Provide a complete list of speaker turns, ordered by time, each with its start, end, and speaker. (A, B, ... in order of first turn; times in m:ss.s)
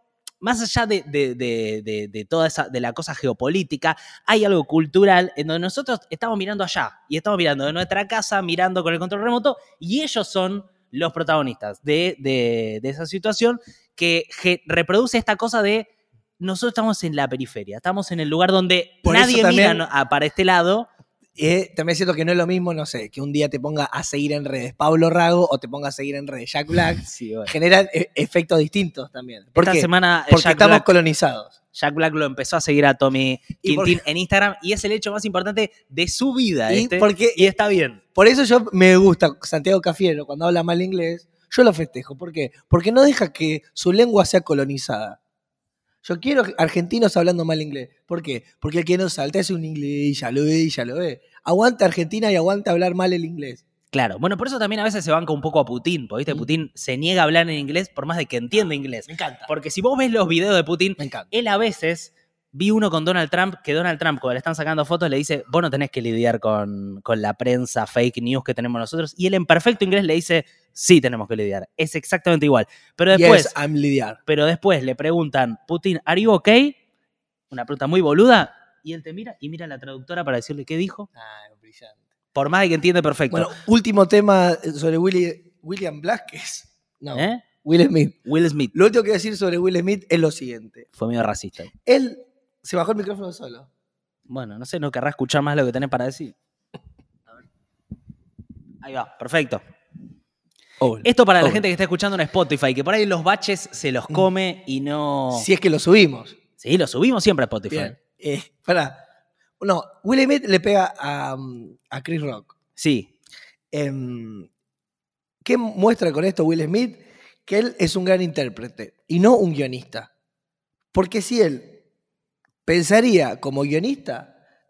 0:00.4-0:15.9 A
0:16.4-0:20.9 A
0:19.0-0:19.8 B
0:21.4-0:31.5 B
0:27.0-0:27.5 A
0:29.6-0:30.9 A
0:31.7-0:38.0 A
0:33.6-0:34.0 B
0:36.7-0:37.5 B
0:38.1-0:45.2 B
0:46.0-0:53.6 B
0:53.9-1:13.5 A
0:59.1-0:59.5 B
1:01.0-1:01.3 B
1:13.1-1:14.2 B
1:14.2-1:16.8 A
1:17.5-1:21.1 A
1:21.2-1:22.0 B
1:22.3-1:23.5 A
1:23.3-1:28.2 B
1:27.1-1:27.4 A
1:28.2-1:28.7 A
1:28.7-1:30.8 B
1:31.0-1:31.7 A
1:31.8-1:33.7 B
1:34.3-1:36.3 A
1:38.8-1:39.6 A
1:40.8-1:41.6 B
1:41.0-1:45.5 A
1:45.3-1:46.4 B
1:46.6-1:47.9 A
1:47.7-1:49.0 B
1:49.6-1:52.5 B
1:52.8-1:53.1 A
1:53.7-1:54.5 B
1:55.4-2:00.1 B
2:00.9-2:01.8 B
2:02.6-2:04.3 B